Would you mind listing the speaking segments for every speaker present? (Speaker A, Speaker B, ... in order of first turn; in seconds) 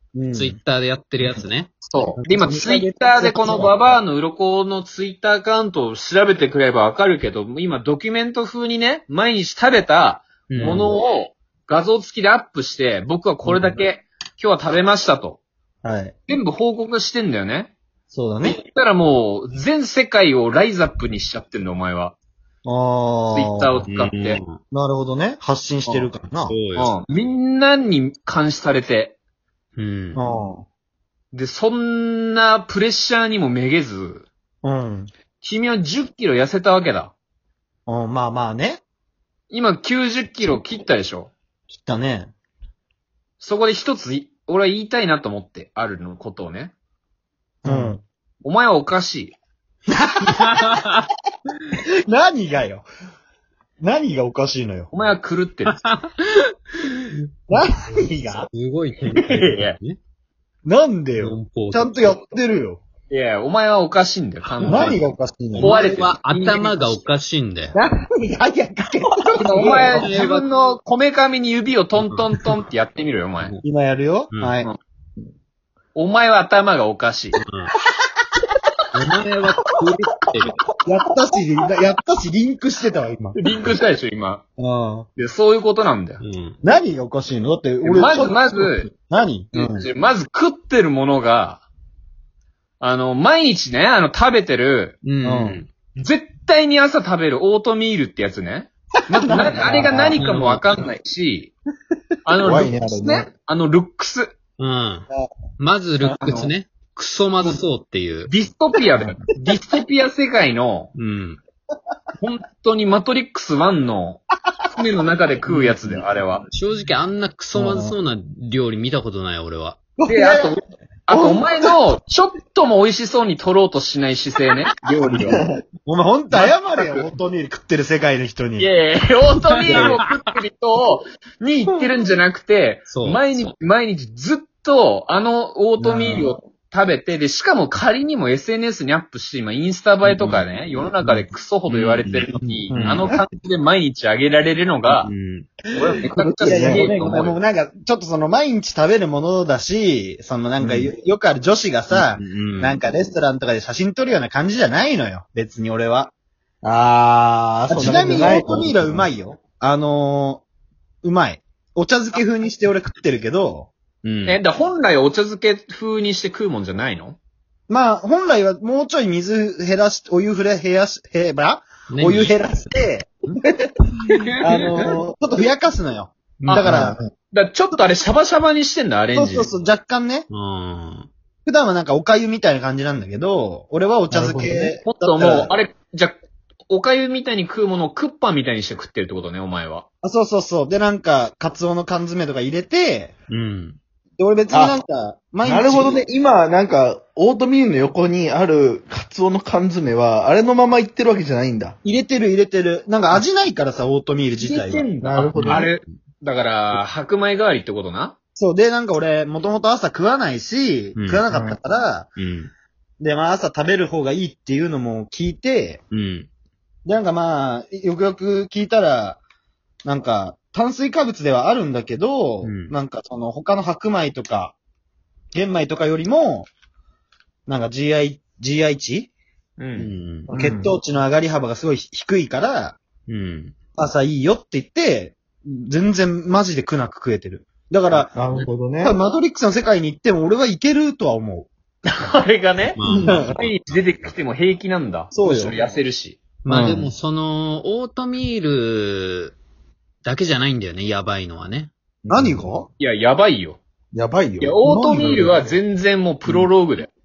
Speaker A: 0.1-0.6, 2.2-3.7, 10.6-11.0, 13.4-13.8, 15.8-16.1, 18.1-18.6, 22.6-23.8, 24.7-26.6, 30.1-30.6, 34.6-35.1, 37.9-38.8, 41.7-42.3, 47.6-48.0, 49.9-50.7, 52.1-52.9, 53.8-54.9, 57.5-58.5, 60.6-62.8, 64.6-65.8, 67.7-70.0, 73.6-74.7, 80.8-83.4, 84.6-85.1, 86.6-89.8, 95.2-95.6, 99.1-99.7, 117.5-118.0, 120.0-120.5, 125.8-128.7, 146.4-156.1, 156.7-160.4, 161.0-163.7, 167.7-173.5, 174.4-177.0, 179.1-180.3, 181.5-185.5, 190.0-193.1, 194.2-196.0, 201.8-204.9, 208.3-212.1, 213.0-215.8, 216.8-219.2, 219.8-224.6, 225.3-226.5, 227.5-229.1, 230.3-232.8, 233.8-241.5, 243.0-243.3, 245.1-245.6, 252.1-252.7, 254.6-255.4
Speaker B: 0.3-1.7, 10.5-10.9, 23.9-24.6, 26.5-26.9, 29.8-30.2, 47.6-48.0, 50.3-51.1, 55.7-57.1, 58.5-60.0, 61.2-62.2, 64.5-65.0, 65.5-67.7, 69.9-70.5, 72.0-72.2, 77.4-77.7, 78.9-80.6, 86.2-86.6, 95.0-95.7, 100.2-100.7, 104.6-105.1, 105.6-108.3, 110.9-111.4, 115.5-116.0, 116.5-119.8, 129.7-130.3, 132.9-133.2, 140.0-140.5, 141.0-143.1, 144.9-145.5, 151.9-152.8, 158.3-158.7, 164.0-164.4, 171.9-172.4, 174.1-174.9, 176.4-176.9, 180.3-181.1, 193.3-193.8, 205.3-205.7, 211.0-211.2, 212.2-212.5, 215.9-216.3, 222.4-222.7, 229.8-230.3, 233.1-233.5, 242.8-243.5, 246.4-249.3, 250.0-251.7
Speaker C: 1.8-15.4, 16.3-17.7, 18.4-22.1, 23.3-24.4, 26.8-29.2, 31.3-34.3, 35.4-37.1, 39.5-41.3, 43.4-46.7, 48.4-49.4, 54.9-55.8, 59.2-59.8, 63.1-65.0, 65.6-67.0, 69.4-73.5, 75.9-77.3, 83.3-84.4, 85.2-86.2, 87.8-88.9, 89.5-91.7, 92.8-95.0, 96.0-101.5, 102.2-104.3, 106.2-106.5, 108.3-110.9, 112.2-114.2, 114.7-116.5, 120.1-125.4, 126.3-127.1, 128.6-145.1, 145.7-147.3, 164.2-167.2, 177.3-179.5, 184.8-186.2, 186.7-189.8, 204.4-208.2, 229.6-229.9, 241.9-246.2, 252.8-253.6, 254.4-256.9
Speaker D: 99.5-100.2, 102.4-103.3, 125.1-125.5, 135.8-136.2, 142.7-143.0, 146.2-146.9, 150.6-150.9, 157.7-159.0, 176.6-177.1, 184.1-184.7, 194.5-194.8, 195.4-201.8, 205.0-205.7, 211.3-211.6, 230.3-230.7, 238.1-239.0, 242.9-243.2, 246.5-246.9, 252.1-252.4, 253.9-255.4